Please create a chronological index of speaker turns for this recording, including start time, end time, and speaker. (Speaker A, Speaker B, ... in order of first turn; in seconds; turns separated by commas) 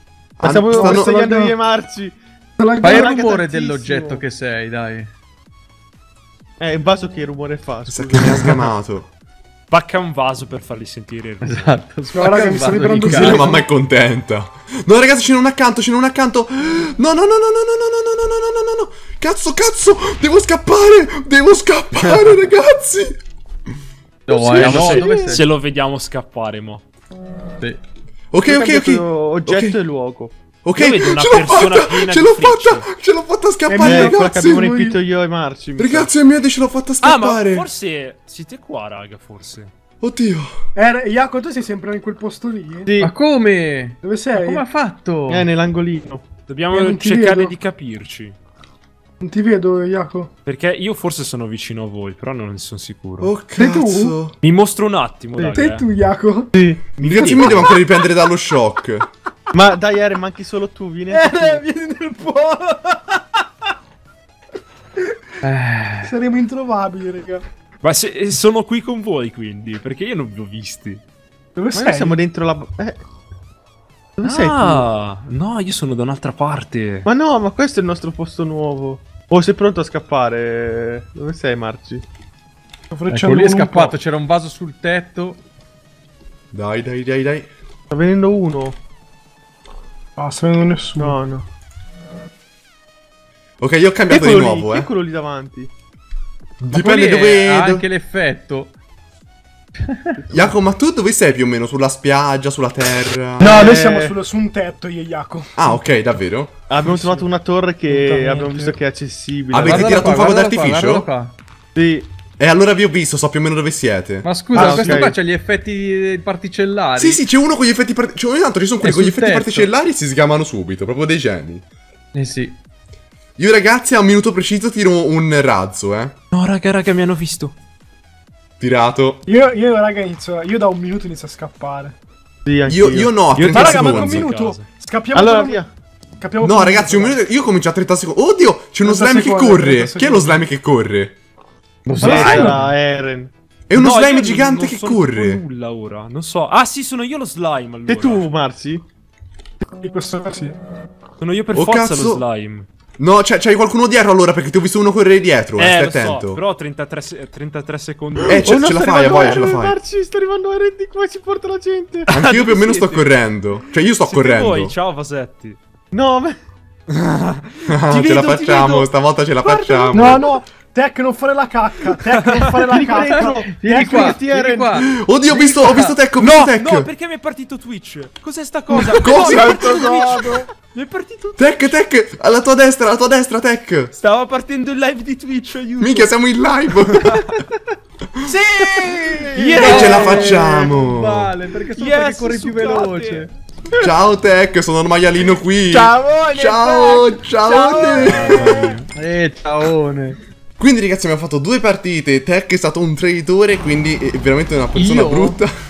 Speaker A: 0.4-1.1, Speaker B: 0.4-2.2, Speaker C: 0.7-1.6, Speaker C: 2.6-3.1, Speaker B: 2.8-4.2, Speaker D: 2.8-5.1, Speaker B: 6.6-8.7, Speaker A: 7.9-9.1, Speaker E: 9.7-11.8, Speaker D: 11.4-13.6, Speaker C: 12.1-13.6, Speaker A: 12.9-23.2, Speaker E: 21.9-22.4, Speaker D: 24.3-25.5, Speaker E: 24.3-26.8, Speaker B: 24.6-25.3, Speaker A: 28.3-29.8, Speaker B: 28.5-30.4, Speaker A: 30.6-34.7, Speaker E: 30.8-32.9, Speaker C: 33.7-35.0, Speaker B: 33.8-36.1, Speaker A: 35.8-37.7, Speaker E: 37.0-39.7, Speaker A: 40.0-40.5, Speaker C: 40.8-42.9, Speaker B: 42.9-43.1, Speaker D: 43.0-45.5, Speaker C: 44.0-44.6, Speaker B: 45.3-46.2, Speaker E: 46.5-48.4, Speaker C: 46.7-47.6, Speaker C: 49.2-50.3, Speaker E: 50.5-53.4, Speaker A: 53.2-54.4, Speaker C: 53.6-54.2, Speaker E: 54.4-55.9, Speaker B: 55.4-55.6, Speaker C: 55.5-56.5, Speaker B: 56.5-57.7, Speaker A: 57.0-59.1, Speaker B: 59.5-61.6, Speaker C: 61.1-63.4, Speaker D: 65.4-66.1, Speaker C: 66.0-67.4, Speaker E: 67.8-71.0, Speaker C: 71.5-72.2, Speaker B: 71.7-73.0, Speaker B: 74.2-74.9, Speaker E: 74.2-77.1, Speaker B: 77.1-82.0, Speaker C: 82.9-84.0, Speaker D: 83.1-85.4, Speaker A: 86.5-87.5, Speaker B: 87.9-88.8, Speaker C: 90.2-91.2, Speaker B: 91.0-91.5, Speaker A: 93.6-94.9, Speaker B: 94.1-95.7, Speaker A: 96.6-97.9, Speaker D: 96.7-98.7, Speaker D: 99.8-100.2, Speaker A: 100.3-103.5, Speaker B: 103.4-104.2, Speaker C: 103.4-105.8, Speaker A: 105.6-106.5, Speaker B: 106.7-110.2, Speaker C: 106.8-107.3, Speaker C: 107.9-108.8, Speaker A: 109.5-111.1, Speaker D: 109.5-111.3, Speaker B: 111.8-112.1, Speaker A: 112.4-114.3, Speaker D: 114.2-117.2, Speaker C: 114.5-115.1, Speaker B: 114.6-115.2, Speaker A: 117.0-121.6, Speaker D: 118.8-119.7, Speaker D: 122.1-122.6, Speaker A: 123.4-126.1, Speaker E: 126.3-127.5, Speaker A: 128.6-129.2, Speaker C: 129.2-132.0, Speaker B: 132.4-133.4, Speaker A: 132.7-134.3, Speaker E: 133.3-134.7, Speaker C: 133.5-135.6, Speaker B: 135.1-135.7, Speaker C: 136.2-137.2, Speaker A: 136.4-141.1, Speaker C: 138.8-140.4, Speaker D: 141.9-142.6, Speaker E: 142.0-142.7, Speaker B: 142.0-143.3, Speaker A: 143.7-145.4, Speaker E: 143.7-148.3, Speaker B: 147.9-148.8, Speaker C: 149.8-150.6, Speaker E: 151.2-152.7, Speaker A: 151.5-152.2, Speaker A: 153.0-156.4, Speaker E: 155.6-158.6, Speaker A: 158.2-159.8, Speaker B: 158.3-162.1, Speaker E: 162.1-163.1, Speaker A: 162.1-164.8, Speaker E: 163.8-165.6, Speaker B: 165.9-166.4, Speaker E: 166.9-168.9, Speaker A: 167.7-170.2, Speaker C: 169.6-174.2, Speaker E: 172.0-172.7, Speaker B: 172.6-174.8, Speaker D: 173.1-176.0, Speaker A: 174.8-176.9, Speaker E: 176.2-181.7, Speaker A: 178.8-180.4, Speaker C: 179.1-180.4, Speaker A: 181.4-183.9, Speaker E: 184.0-186.1, Speaker A: 185.8-187.3, Speaker E: 186.7-187.2, Speaker C: 188.3-189.7, Speaker E: 188.6-190.5, Speaker B: 189.5-189.9, Speaker D: 189.6-193.3, Speaker A: 189.6-191.3, Speaker E: 191.7-193.3, Speaker A: 193.8-198.6, Speaker E: 195.7-197.0, Speaker C: 197.6-198.2, Speaker E: 197.9-198.9, Speaker D: 198.9-200.2, Speaker A: 200.6-205.5, Speaker D: 204.8-205.4